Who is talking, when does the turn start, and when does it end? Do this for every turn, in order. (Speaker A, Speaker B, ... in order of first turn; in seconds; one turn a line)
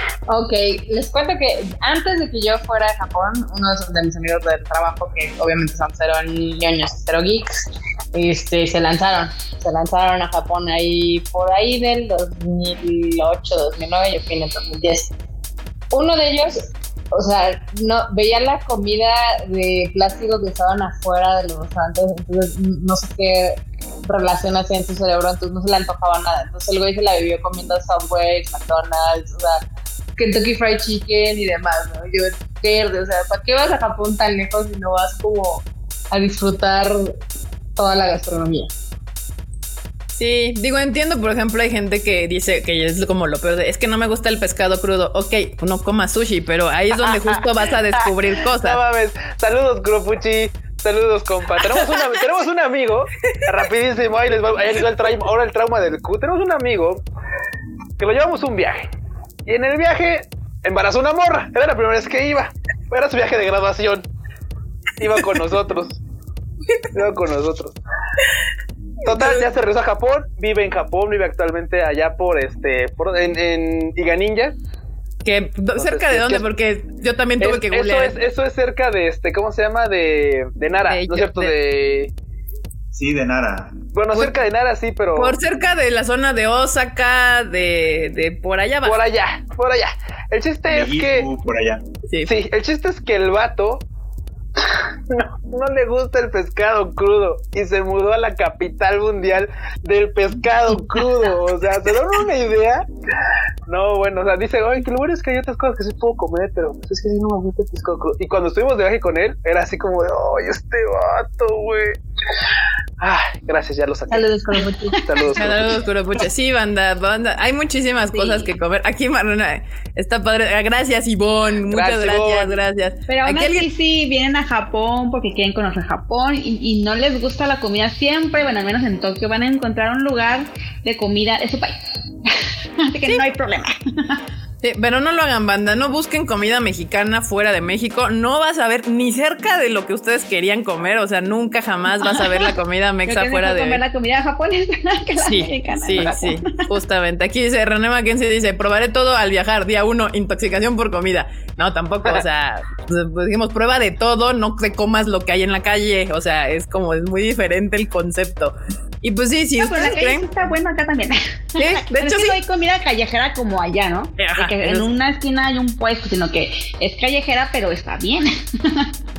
Speaker A: 0.3-15.1
Speaker A: 15.9-29.6
Speaker A: 30.2-37.1
Speaker A: 37.8-38.7
Speaker B: 40.1-48.8
Speaker C: 47.1-47.4
Speaker C: 48.0-57.0
Speaker C: 58.0-58.9
Speaker C: 59.5-64.1
Speaker C: 65.0-66.0
Speaker C: 66.9-67.8
Speaker C: 69.1-74.5
Speaker B: 69.1-69.5
Speaker B: 75.2-78.2
Speaker C: 75.8-76.5
Speaker C: 77.4-82.1
Speaker B: 80.9-81.5
Speaker D: 82.9-83.8
Speaker C: 83.9-85.4
Speaker B: 85.2-89.0
Speaker C: 88.8-91.3
Speaker D: 90.7-91.8
Speaker C: 92.3-93.8
Speaker C: 94.6-102.9
Speaker C: 103.7-112.0
Speaker C: 113.0-114.4
Speaker A: 114.1-115.0
Speaker C: 115.0-115.6
Speaker B: 115.3-123.7
Speaker E: 118.1-118.5
Speaker C: 121.7-122.6
Speaker E: 123.1-134.2
Speaker B: 134.6-143.8
Speaker E: 142.0-142.5
Speaker E: 143.1-146.7
Speaker B: 145.2-160.3
Speaker E: 159.6-168.9
Speaker B: 161.6-162.4
Speaker B: 164.2-164.9